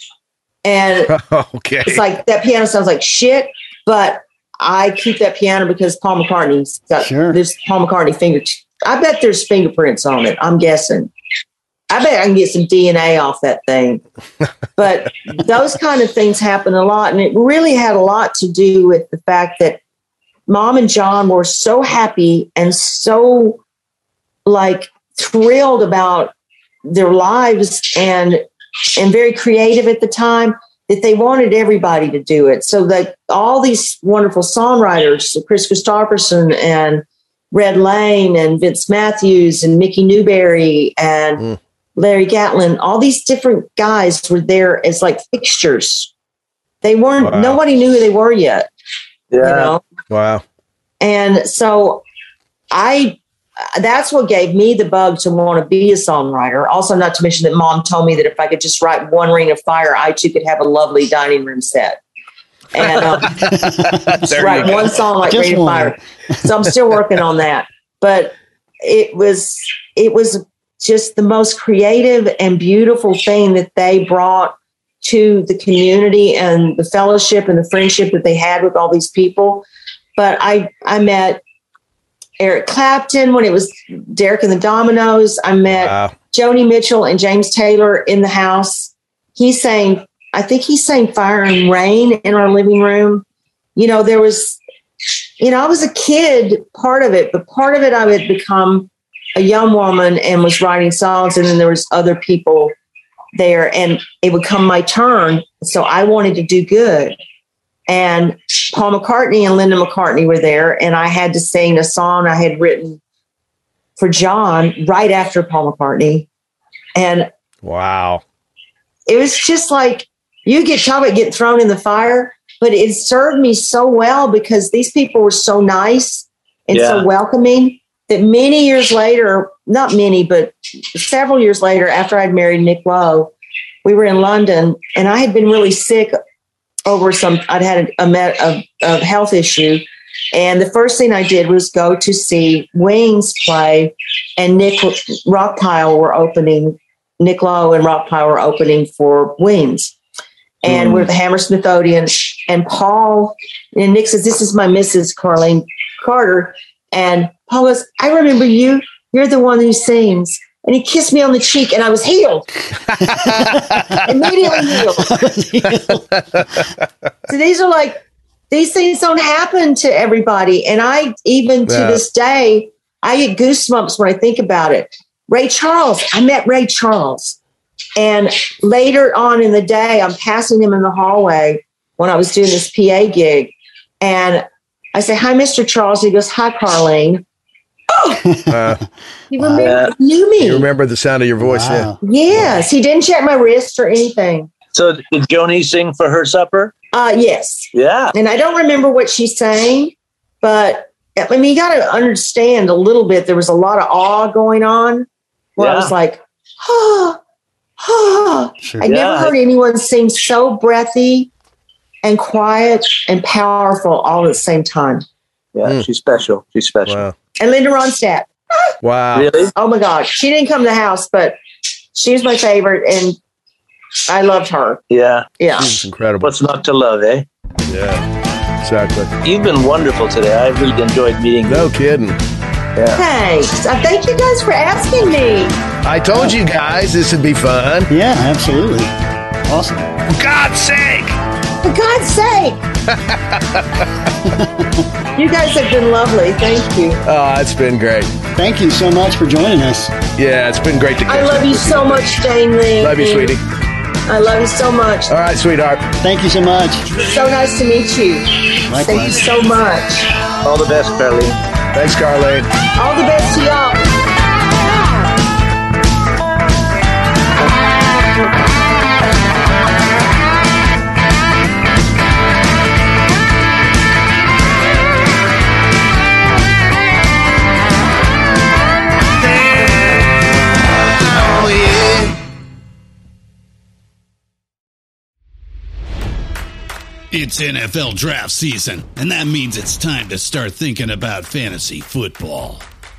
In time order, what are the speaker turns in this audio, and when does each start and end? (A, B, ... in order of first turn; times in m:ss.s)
0:00.6-0:01.1 A
0:01.1-0:02.0 B
0:01.8-0:11.1 A
0:07.0-0:07.4 C
0:11.9-0:14.0 A
0:14.8-0:19.8 A
0:20.5-0:23.6 A
0:24.4-0:26.3 A
0:26.9-0:28.4 A
0:29.0-0:41.4 A
0:42.0-0:46.1 A
0:46.8-0:48.7 A
0:47.2-0:47.6 B
0:49.3-0:49.7 D
0:49.4-0:49.8 A
0:50.1-0:50.4 B
0:51.0-0:52.0 A
0:52.7-0:53.2 A
0:53.7-1:02.0 A
1:02.7-1:03.4 A
1:03.2-1:05.0 B
1:03.4-1:06.0 C
1:04.3-1:19.6 A
1:20.2-1:21.4 A
1:22.4-1:33.2 A
1:25.7-1:26.1 B
1:33.8-1:34.6 A
1:35.4-1:42.7 A
1:43.3-1:47.2 A
1:47.9-1:53.0 A
1:54.0-1:56.3 A
1:56.9-1:57.3 A
1:57.6-1:58.2 B
1:59.1-2:13.3 A
2:06.7-2:07.0 D
2:13.8-2:16.1 A
2:16.8-2:29.9 A
2:30.6-2:42.4 A
2:30.7-2:31.0 B
2:42.9-2:44.0 B
2:43.3-2:43.8 C
2:44.0-2:45.1 A
2:45.0-2:46.0 C
2:45.6-2:46.7 B
2:47.3-2:57.4 A
2:51.7-2:52.0 B
2:58.0-3:07.2 A
3:07.9-3:08.2 A
3:08.2-3:08.9 C
3:08.5-3:08.8 B
3:09.3-3:10.7 A
3:09.4-3:09.7 C
3:09.6-3:09.9 D
3:10.4-3:12.6 B
3:11.4-3:12.0 C
3:12.0-3:14.5 A
3:14.7-3:16.7 D
3:16.9-3:27.2 A
3:17.7-3:18.1 D
3:25.6-3:25.9 D
3:27.8-3:31.3 A
3:28.6-3:28.9 C
3:28.9-3:29.3 D
3:32.0-3:35.0 A
3:35.5-3:37.0 D
3:36.9-3:37.1 B
3:37.4-3:38.7 A
3:38.8-3:39.3 B
3:39.1-3:39.5 D
3:39.5-3:41.4 A
3:41.9-3:43.2 A
3:44.1-3:44.8 A
3:44.9-3:45.2 D
3:45.4-3:45.8 A
3:45.6-3:46.3 B
3:46.2-3:47.2 D
3:47.7-3:48.0 B
3:48.6-3:49.1 B
3:49.2-3:51.7 D
3:51.5-3:52.2 B
3:52.8-3:53.0 D
3:52.9-3:55.6 A
3:55.8-3:57.9 B
3:57.9-3:58.9 C
3:59.4-3:59.9 C
4:00.1-4:01.2 B
4:01.6-4:02.6 A
4:02.9-4:03.9 B
4:04.2-4:04.9 C
4:05.2-4:07.0 A
4:07.0-4:08.1 B
4:08.4-4:09.9 C
4:10.2-4:12.2 B
4:11.1-4:13.4 A
4:12.8-4:13.4 B
4:14.1-4:15.1 A
4:15.1-4:15.9 B
4:16.0-4:16.8 C
4:16.9-4:20.1 A
4:18.7-4:19.4 C
4:20.4-4:21.4 D
4:21.7-4:22.5 B
4:22.8-4:23.9 A
4:41.1-4:42.1 E
4:47.1-4:52.6 E